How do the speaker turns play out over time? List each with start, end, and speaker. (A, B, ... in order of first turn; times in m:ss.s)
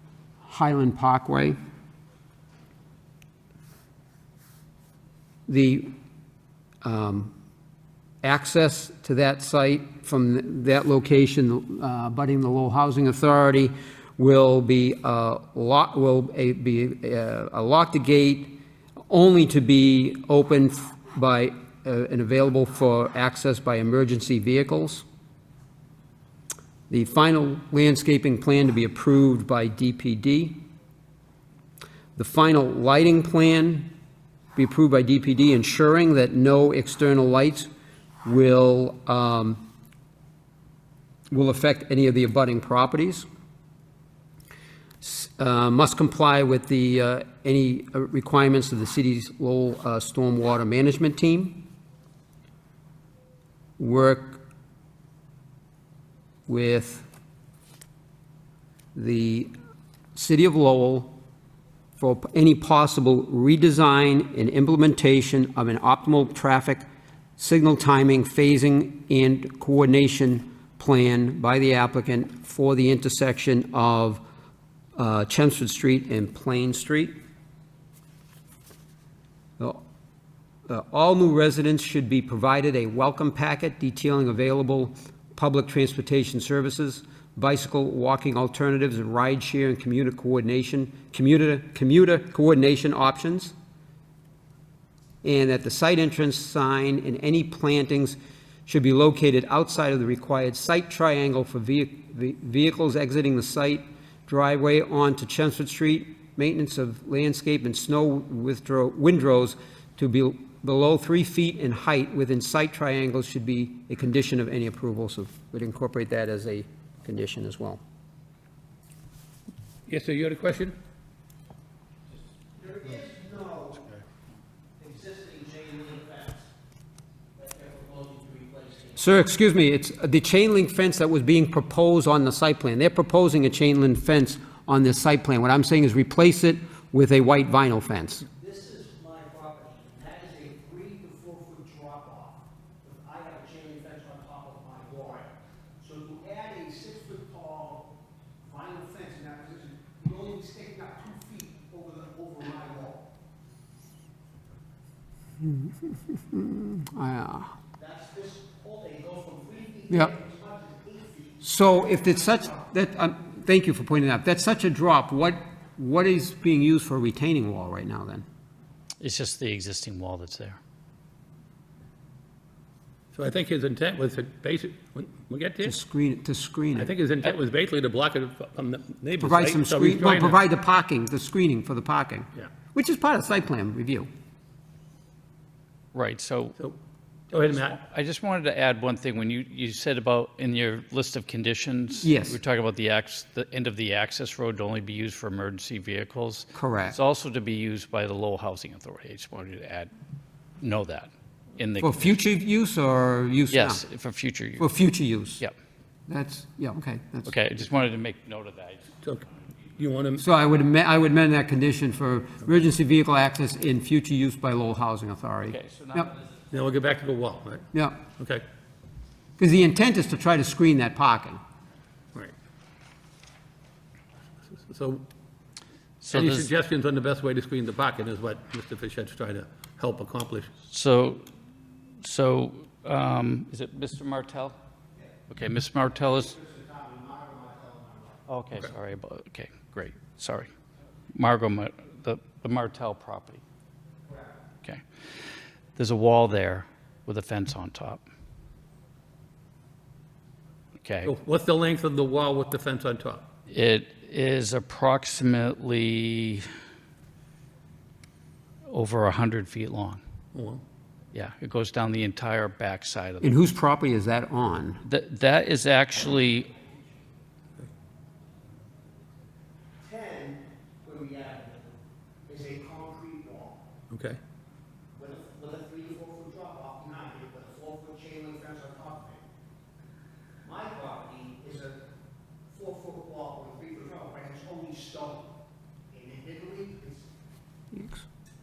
0:00.4-0:01.6 A
0:05.5-0:05.9 A
0:06.8-0:07.3 A
0:08.2-0:18.6 A
0:19.1-0:25.0 A
0:26.9-0:30.6 A
0:32.2-0:33.9 A
0:34.6-0:37.7 A
0:38.2-0:39.6 A
0:41.3-0:43.3 A
0:45.0-0:51.6 A
0:53.8-0:54.4 A
0:56.5-0:57.0 A
0:59.0-0:59.5 A
1:00.2-1:01.1 A
1:02.0-1:06.9 A
1:07.4-1:14.2 A
1:15.0-1:17.2 A
1:20.7-1:33.5 A
1:35.2-1:57.8 A
1:59.9-2:00.8 B
2:02.6-2:04.0 C
2:04.8-2:06.5 C
2:07.4-2:09.1 C
2:09.0-2:18.3 A
2:18.4-2:27.9 C
2:28.4-2:33.0 C
2:35.5-2:37.5 A
2:37.8-2:42.6 C
2:41.4-2:48.2 A
2:49.0-2:50.6 D
2:53.1-2:55.8 B
2:55.6-2:56.9 A
2:56.8-3:00.4 B
2:59.2-3:04.1 A
3:05.9-3:06.6 D
3:07.3-3:07.8 B
3:07.5-3:19.9 D
3:12.0-3:12.4 A
3:16.6-3:17.0 A
3:20.6-3:22.2 D
3:21.8-3:23.8 A
3:23.5-3:24.7 D
3:24.6-3:25.4 A
3:26.1-3:27.3 A
3:27.3-3:28.9 D
3:29.0-3:30.2 B
3:30.2-3:36.1 A
3:35.5-3:36.2 D
3:36.5-3:38.4 B
3:37.7-3:38.0 A
3:39.4-3:41.4 A
3:44.5-3:45.0 B
3:46.0-3:46.5 D
3:46.1-3:50.5 B
3:50.7-3:51.3 D
3:52.0-3:54.6 D
3:55.3-3:56.4 D
3:56.1-3:58.2 C
3:58.3-4:00.5 D
4:01.1-4:03.4 D
4:04.1-4:04.4 C
4:05.8-4:08.0 D
4:10.8-4:11.1 D
4:11.0-4:13.3 B
4:13.5-4:16.5 D
4:18.7-4:20.0 D
4:20.3-4:20.6 B
4:21.1-4:23.3 D
4:23.2-4:24.8 A
4:24.8-4:26.5 D
4:29.8-4:31.8 C
4:32.3-4:33.6 C
4:33.9-4:34.2 B
4:34.9-4:39.2 C
4:40.4-4:41.8 C
4:42.5-4:45.3 C
4:45.9-4:47.1 C
4:47.7-4:48.0 A